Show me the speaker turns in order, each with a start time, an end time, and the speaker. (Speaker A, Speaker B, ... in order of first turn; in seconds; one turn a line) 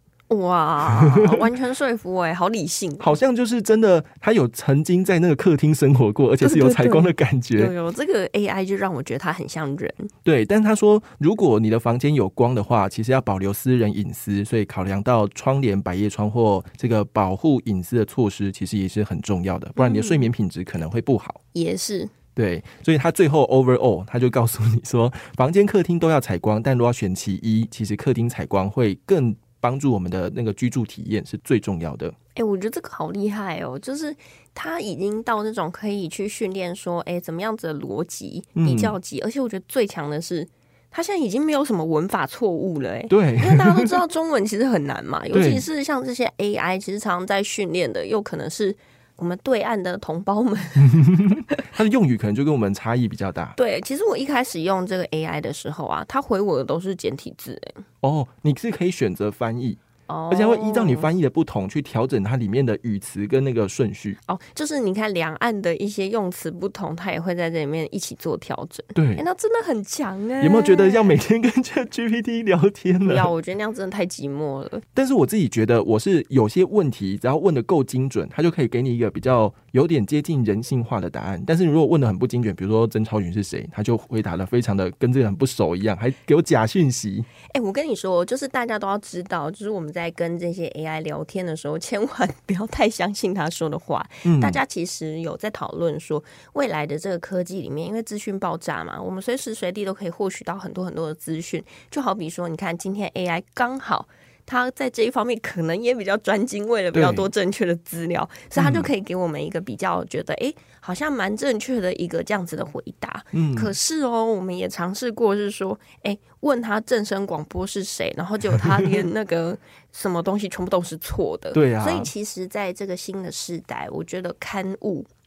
Speaker A: 0.3-3.2
Speaker B: 0.9-1.3
Speaker B: 3.0-7.7
Speaker A: 6.4-10.1
Speaker B: 10.2-21.4
Speaker A: 19.8-20.3
Speaker A: 21.5-22.1
Speaker B: 22.4-32.1
Speaker A: 32.4-51.6
Speaker B: 38.5-39.0
Speaker B: 43.1-44.0
Speaker B: 45.3-45.6
Speaker B: 50.8-53.5
Speaker A: 53.6-57.8
Speaker B: 58.0-64.2
Speaker A: 60.1-61.1
Speaker A: 64.3-71.2
Speaker B: 68.9-69.2
Speaker B: 70.4-73.3
Speaker A: 73.0-74.8
Speaker B: 74.9-87.3
Speaker A: 87.5-125.1
Speaker B: 94.2-94.6
Speaker B: 106.9-107.3
Speaker B: 108.5-108.9
Speaker B: 113.3-113.7
Speaker B: 121.5-122.1